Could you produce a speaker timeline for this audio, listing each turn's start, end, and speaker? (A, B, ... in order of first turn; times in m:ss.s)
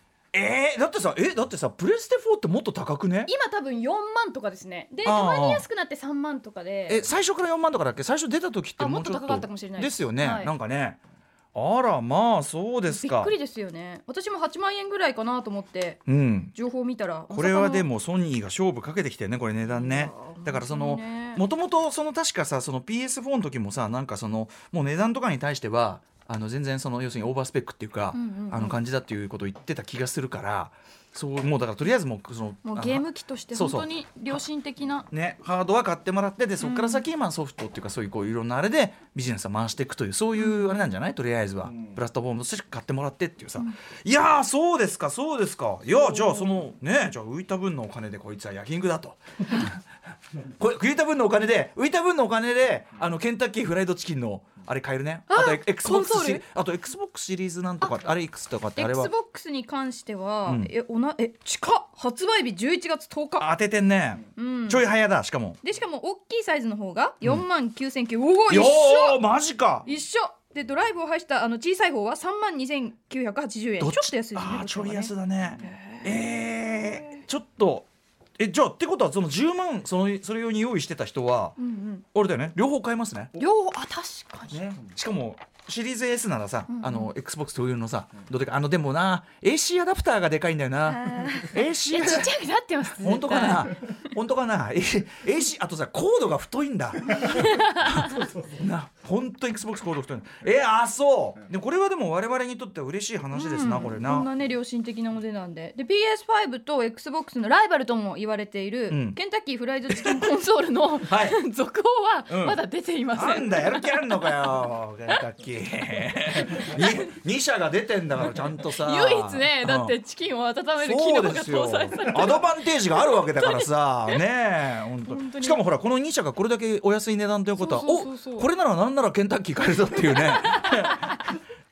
0:00.3-0:03.3 A
0:03.2-0:07.1 B
0:05.0-0:05.6 A
0:06.9-0:11.0 A
0:08.8-0:10.5 B
0:11.5-0:13.3 A
0:12.9-0:16.0 B
0:16.1-0:16.5 A
0:16.5-0:17.8 B
0:17.3-0:34.4 A
0:19.8-0:21.4 B
0:28.1-0:28.8 B
0:32.6-0:35.1 B
0:35.1-0:49.8 A
0:36.6-0:37.0 B
0:40.4-0:40.7 B
0:45.9-0:46.6 B
0:50.6-0:59.1 A
0:55.3-0:56.4 B
0:58.8-1:03.5 B
1:00.4-1:00.7 A
1:03.4-1:05.6 A
1:04.4-1:04.8 B
1:05.6-1:09.2 B
1:08.5-1:09.8 A
1:09.8-1:16.1 B
1:13.8-1:21.6 A
1:21.6-1:22.0 B
1:22.1-1:23.4 A
1:23.4-1:24.6 B
1:24.5-1:32.3 A
1:26.7-1:27.1 B
1:30.9-1:33.8 B
1:33.0-1:44.3 A
1:37.2-1:38.2 B
1:43.3-1:54.4 B
1:48.9-1:49.2 A
1:49.9-1:50.3 A
1:51.1-1:51.4 A
1:52.3-1:52.6 A
1:53.1-2:00.0 A
1:56.5-1:56.9 B
1:58.7-2:04.2 B
2:00.8-2:11.3 A
2:05.0-2:05.6 B
2:07.6-2:08.5 B
2:10.5-2:11.2 B